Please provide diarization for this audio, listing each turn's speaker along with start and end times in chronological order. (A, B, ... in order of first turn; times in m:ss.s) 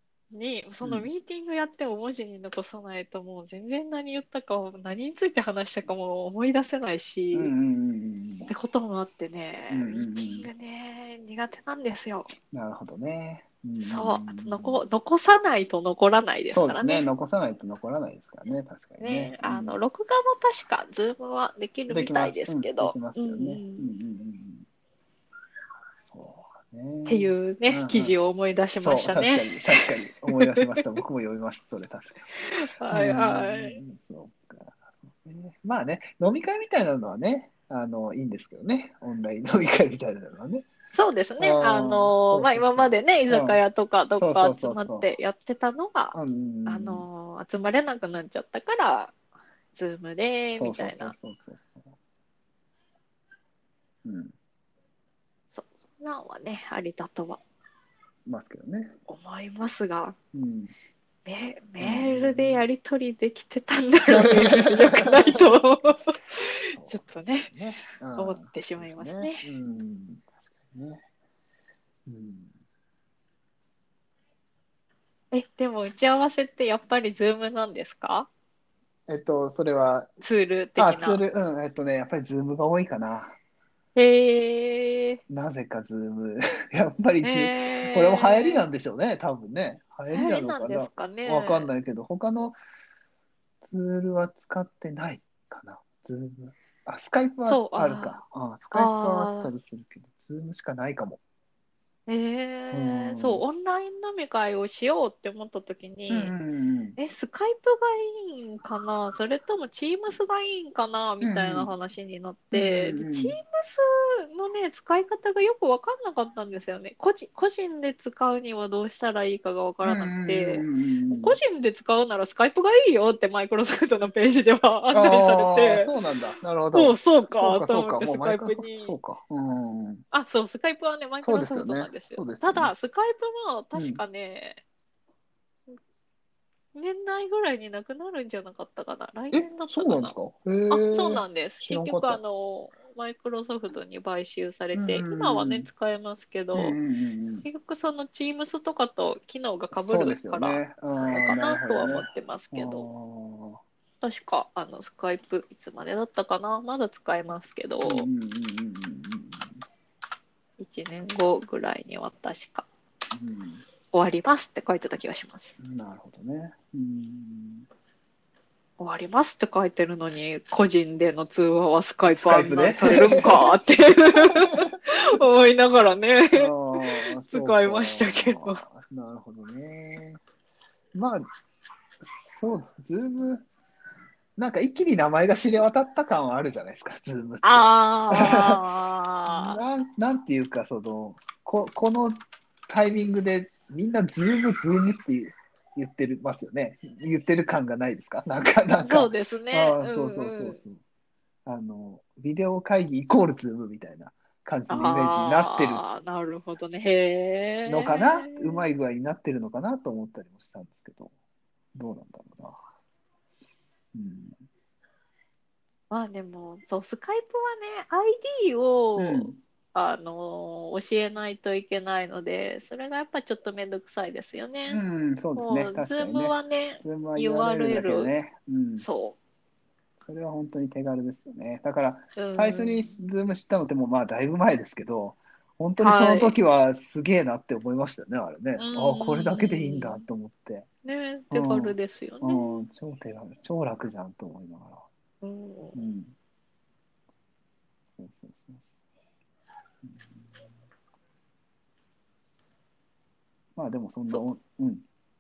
0:00.3-0:07.5 A
0:00.8-0:01.1 B
0:07.3-0:08.5 B
0:08.5-0:12.3 A
0:09.7-0:10.5 B
0:12.5-0:14.8 B
0:13.8-0:17.0 A
0:16.5-0:19.8 B
0:19.0-0:23.9 A
0:21.9-0:24.7 B
0:26.0-0:28.2 B
0:27.0-0:31.0 A
0:28.8-0:32.2 B
0:32.5-0:33.8 A
0:32.9-0:40.7 B
0:40.9-0:49.1 A
0:41.4-0:43.6 B
0:44.2-0:45.1 B
0:46.1-0:47.0 B
0:49.8-0:51.1 A
0:50.5-0:51.9 B
0:54.0-0:54.3 B
0:55.5-0:57.4 A
0:58.2-0:59.0 B
0:59.1-1:00.2 A
1:00.3-1:00.7 B
1:01.2-1:07.5 A
1:01.8-1:02.6 B
1:04.1-1:05.6 B
1:06.8-1:11.0 B
1:08.2-1:09.4 A
1:12.0-1:12.5 B
1:15.3-1:18.3 A
1:19.1-1:20.1 B
1:20.2-1:21.2 A
1:20.8-1:23.4 B
1:23.9-1:25.2 A
1:25.3-1:32.6 B
1:27.2-1:28.7 A
1:30.1-1:31.7 A
1:33.6-1:41.2 B
1:37.4-1:38.2 A
1:38.7-1:39.5 A
1:42.1-1:46.3 A
1:42.7-1:43.4 B
1:46.1-1:47.0 B
1:47.0-2:05.9 A
1:51.2-1:51.7 B
1:52.5-1:53.4 B
1:59.8-2:01.4 B
2:04.9-2:10.0 B
2:06.7-2:08.9 A
2:10.1-2:14.6 A
2:11.2-2:12.7 B
2:13.8-2:14.0 B
2:16.8-2:20.1 A
2:19.3-2:22.2 B
2:20.7-2:26.8 A
2:24.7-2:25.7 B
2:26.5-2:27.4 B
2:27.4-2:32.9 A
2:29.7-2:33.6 B
2:34.0-2:38.1 A
2:37.8-2:39.5 B
2:40.6-2:42.7 A
2:43.1-2:43.6 B
2:43.9-2:45.6 A
2:45.6-2:47.7 B
2:48.8-2:58.6 A
2:52.1-2:53.7 B
2:54.3-2:54.6 B
2:56.3-3:00.2 B
3:00.9-3:01.3 B
3:02.0-3:03.5 B
3:04.4-3:08.6 B
3:07.4-3:09.6 A
3:09.3-3:20.8 B
3:18.8-3:20.6 A
3:21.4-3:25.8 B
3:24.7-3:28.6 A
3:27.6-3:31.1 B
3:31.8-3:32.6 B
3:33.9-3:34.4 B
3:35.9-3:44.8 A
3:39.0-3:39.4 B
3:44.7-3:48.9 B
3:45.3-3:48.1 A
3:48.8-3:49.2 A
3:50.0-4:00.7 B
3:52.2-3:53.0 A
3:55.8-3:56.4 A
3:58.6-4:00.0 A
4:00.8-4:02.6 A
4:01.3-4:04.8 B
4:05.2-4:05.8 A
4:05.8-4:06.1 B
4:08.0-4:08.7 B
4:09.8-4:10.4 B
4:13.6-4:14.8 B